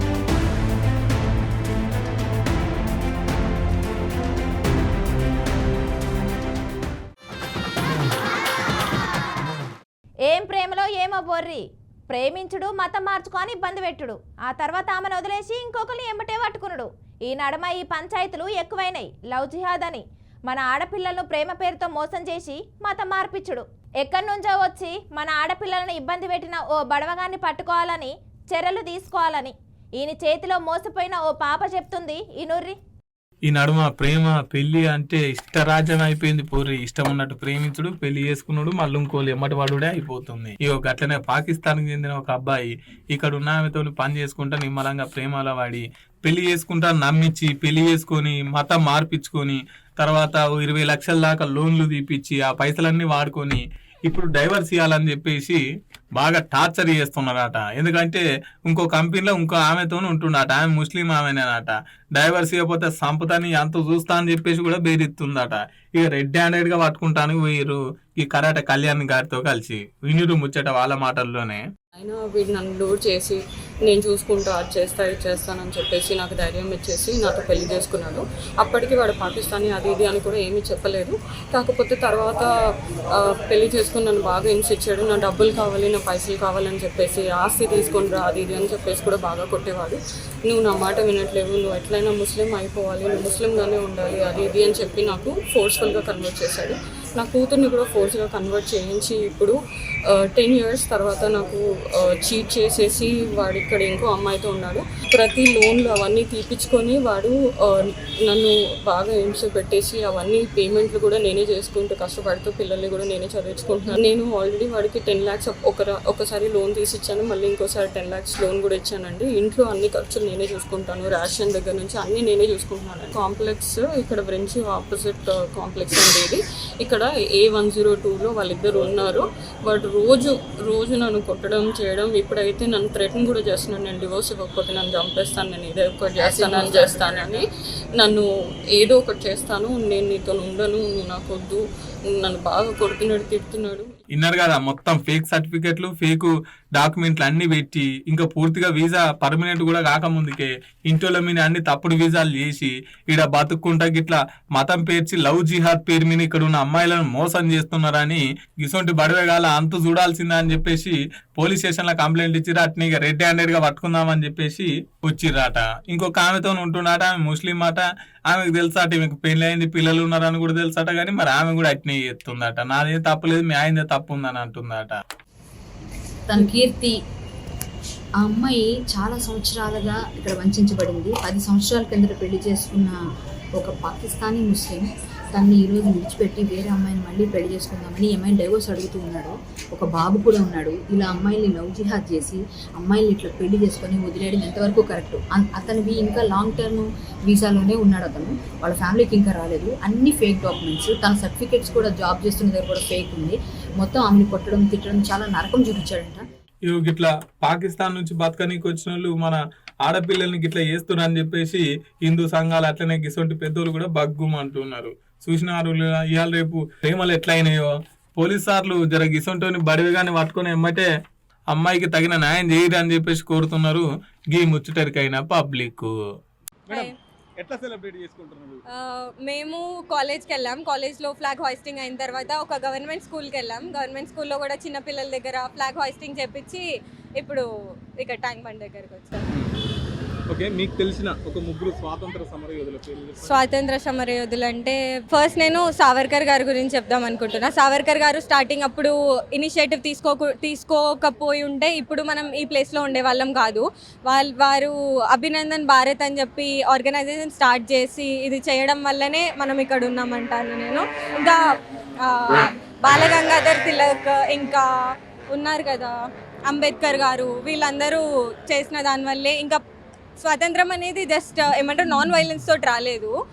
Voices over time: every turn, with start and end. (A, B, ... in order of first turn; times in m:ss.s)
0:10.3-0:32.8 A
0:33.5-0:55.6 B
0:56.2-1:11.6 B
1:12.0-1:22.5 C
1:23.1-1:39.6 C
1:40.1-2:17.5 C
2:16.2-2:17.0 D
2:18.0-2:21.6 C
2:22.2-2:23.9 C
2:24.1-2:55.0 B
2:56.3-2:57.0 D
2:58.2-3:03.0 D
3:03.6-3:26.2 D
3:26.7-3:40.9 B
3:41.5-3:45.9 B
3:46.7-3:48.6 E
3:48.7-3:56.6 F
3:57.2-3:57.4 F
3:58.0-3:59.2 F
4:00.3-4:03.4 E
4:03.2-4:21.4 F
4:22.0-4:24.6 F
4:25.3-4:25.9 F
4:26.5-4:29.6 F
4:30.2-4:33.1 F